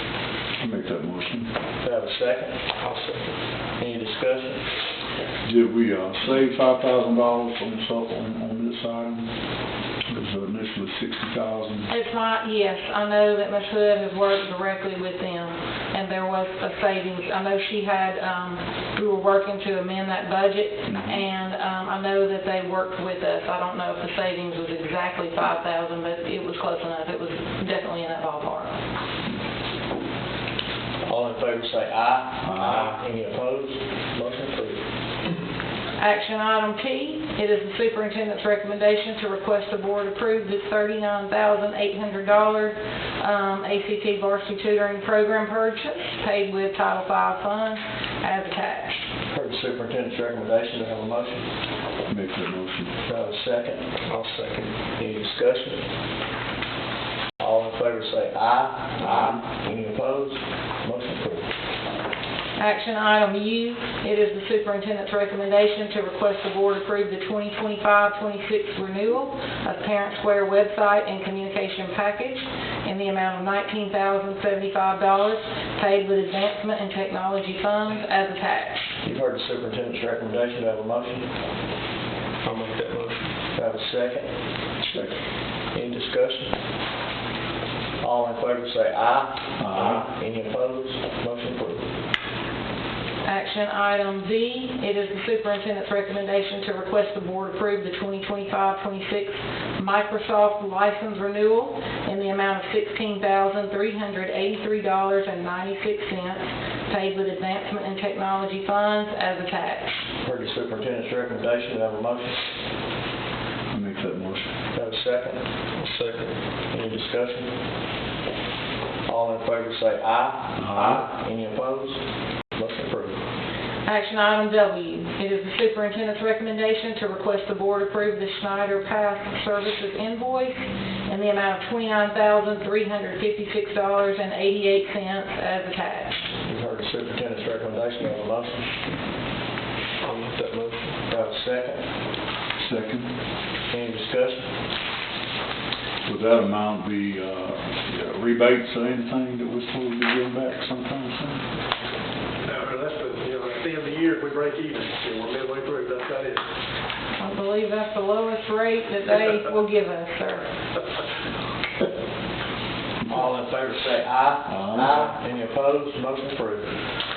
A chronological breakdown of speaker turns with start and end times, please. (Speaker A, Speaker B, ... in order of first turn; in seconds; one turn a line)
Speaker A: 0.6-1.5
Speaker B: 1.8-2.6
Speaker B: 3.8-4.7
Speaker A: 5.4-9.3
Speaker A: 10.1-11.9
Speaker C: 11.9-28.7
Speaker A: 20.9-21.2
Speaker B: 31.1-34.8
Speaker A: 32.4-33.0
Speaker C: 36.0-49.0
Speaker B: 49.3-51.5
Speaker A: 52.1-53.0
Speaker B: 53.1-55.8
Speaker B: 57.4-61.5
Speaker C: 62.6-78.9
Speaker B: 79.0-81.3
Speaker B: 83.5-84.3
Speaker A: 84.9-85.1
Speaker B: 85.7-86.5
Speaker B: 88.0-91.9
Speaker A: 89.6-90.0
Speaker C: 93.2-110.0
Speaker B: 110.2-112.5
Speaker A: 113.7-114.5
Speaker B: 114.8-115.4
Speaker B: 116.7-117.5
Speaker B: 119.1-122.0
Speaker A: 120.6-121.1
Speaker B: 122.5-123.2
Speaker C: 123.9-136.2
Speaker B: 136.5-138.8
Speaker B: 141.1-141.8
Speaker A: 142.6-143.1
Speaker B: 143.7-144.5
Speaker A: 146.1-151.4
Speaker D: 152.5-156.4
Speaker C: 157.2-160.5
Speaker B: 163.1-166.7
Speaker A: 164.4-165.1